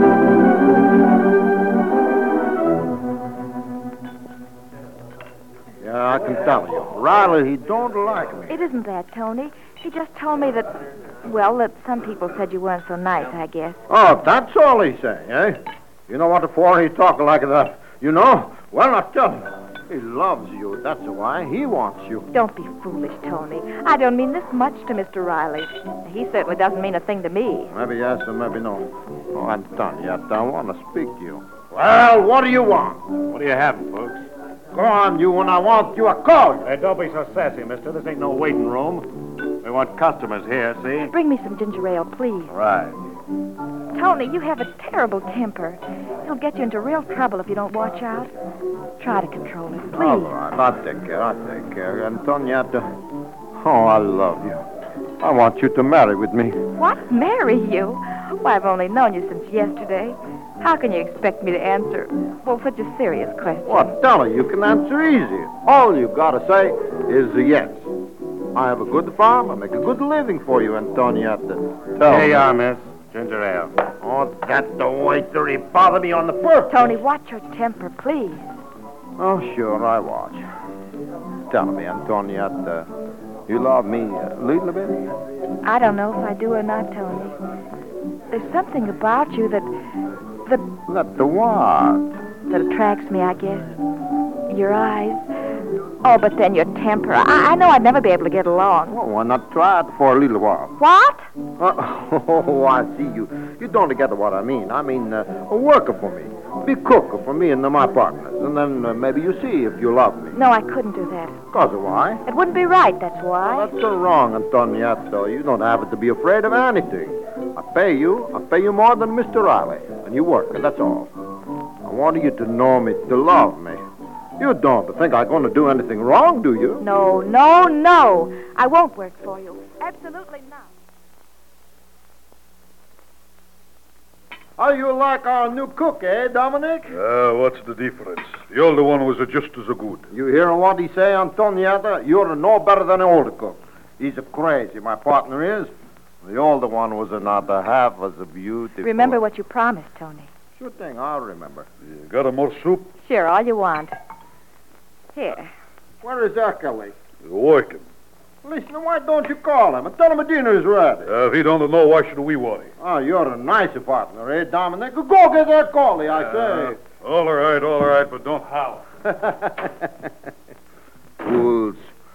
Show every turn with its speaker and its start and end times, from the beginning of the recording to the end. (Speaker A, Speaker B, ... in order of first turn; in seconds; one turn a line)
Speaker A: 5.8-8.6
Speaker B: 8.5-13.8
Speaker A: 13.9-22.3
Speaker B: 22.3-27.7
Speaker A: 27.7-33.1
Speaker C: 33.3-34.3
Speaker A: 34.7-36.7
Speaker C: 36.6-41.1
Speaker B: 41.1-42.5
Speaker C: 42.5-43.0
Speaker B: 43.9-48.3
Speaker B: 49.0-50.3
Speaker A: 49.9-53.0
Speaker A: 53.5-54.6
Speaker A: 55.2-56.6
Speaker B: 56.7-63.9
Speaker A: 63.6-67.9
Speaker A: 68.5-72.7
Speaker C: 72.0-73.8
Speaker A: 74.0-77.0
Speaker B: 76.7-78.5
Speaker A: 79.2-80.4
Speaker A: 81.5-82.9
Speaker A: 83.5-85.1
Speaker B: 85.6-87.3
Speaker B: 88.3-89.7
Speaker A: 90.9-92.1
Speaker B: 92.5-93.7
Speaker B: 94.5-95.2
Speaker B: 96.0-99.0
Speaker A: 98.9-100.7
Speaker B: 100.8-101.3
Speaker A: 101.6-110.3
Speaker B: 110.3-111.4
Speaker A: 111.5-112.2
Speaker B: 112.2-113.7
Speaker A: 113.4-121.1
Speaker A: 121.8-123.8
Speaker A: 124.4-126.8
Speaker B: 126.8-130.7
Speaker A: 134.6-136.9
Speaker D: 136.9-140.1
Speaker A: 140.1-145.7
Speaker A: 146.2-149.2
Speaker B: 148.8-150.3
Speaker A: 150.6-151.7
Speaker D: 151.8-152.9
Speaker B: 153.0-153.9
Speaker B: 155.1-155.5
Speaker A: 156.0-156.9
Speaker D: 157.2-157.8
Speaker A: 158.4-161.1
Speaker D: 161.1-162.7
Speaker A: 162.8-166.8
Speaker D: 166.3-168.9
Speaker A: 169.1-169.9
Speaker A: 171.2-171.9